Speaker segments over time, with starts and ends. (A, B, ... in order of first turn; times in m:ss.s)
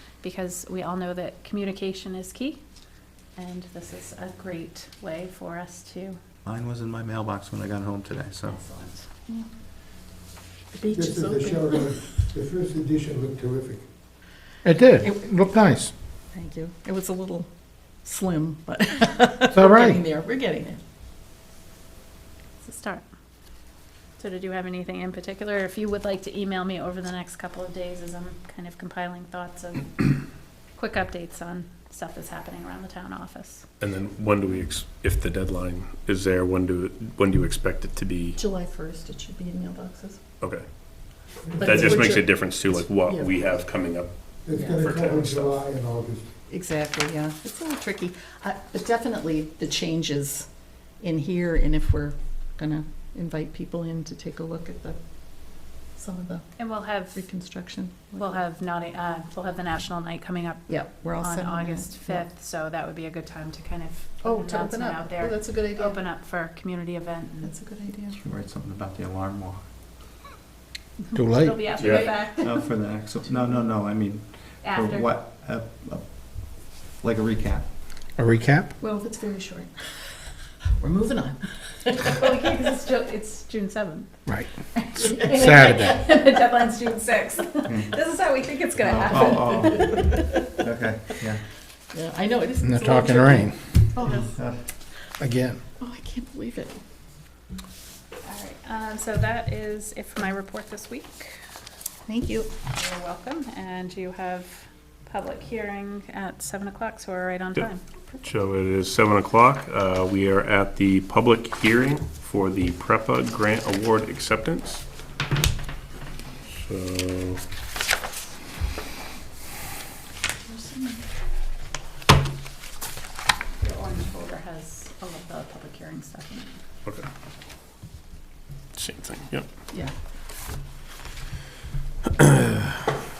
0:00.2-0:02.6 A
0:03.4-0:06.2 A
0:06.4-0:08.6 B
0:08.4-0:09.0 A
0:10.7-0:12.0 C
0:10.9-0:13.8 D
0:14.6-0:15.9 E
0:16.3-0:17.5 C
0:18.0-0:20.8 C
0:19.5-0:20.0 E
0:22.6-0:23.0 A
0:24.2-0:30.2 A
0:30.8-0:33.6 A
0:33.8-0:38.4 F
0:38.4-0:40.2 C
0:41.5-0:42.1 D
0:41.6-0:42.3 C
0:41.6-0:44.1 F
0:43.0-0:43.3 C
0:44.4-0:46.3 D
0:44.6-0:45.6 F
0:46.5-0:50.4 C
0:51.0-0:55.0 C
0:56.0-0:56.5 C
0:56.6-0:57.2 A
0:57.1-0:58.4 C
0:58.2-1:07.5 A
1:00.7-1:02.3 C
1:04.2-1:06.0 C
1:07.4-1:08.2 C
1:08.1-1:09.6 B
1:11.0-1:12.7 A
1:11.1-1:11.7 E
1:11.8-1:12.1 F
1:12.3-1:16.0 B
1:14.6-1:15.2 A
1:17.0-1:17.6 B
1:18.2-1:18.8 E
1:18.8-1:19.7 C
1:20.8-1:22.5 C
1:22.1-1:24.1 A
1:24.7-1:30.0 A
1:25.2-1:26.0 E
1:28.8-1:31.4 B
1:30.1-1:30.4 C
1:31.9-1:34.3 C
1:32.6-1:33.6 E
1:34.2-1:34.6 B
1:35.2-1:35.6 E
1:35.8-1:36.8 C
1:38.2-1:41.4 A
1:42.1-1:42.5 C
1:42.7-1:47.8 A
1:48.2-1:54.8 F
1:56.5-1:57.4 F
2:00.5-2:01.0 C
2:03.6-2:06.6 A
2:08.7-2:09.4 F
2:12.2-2:12.7 F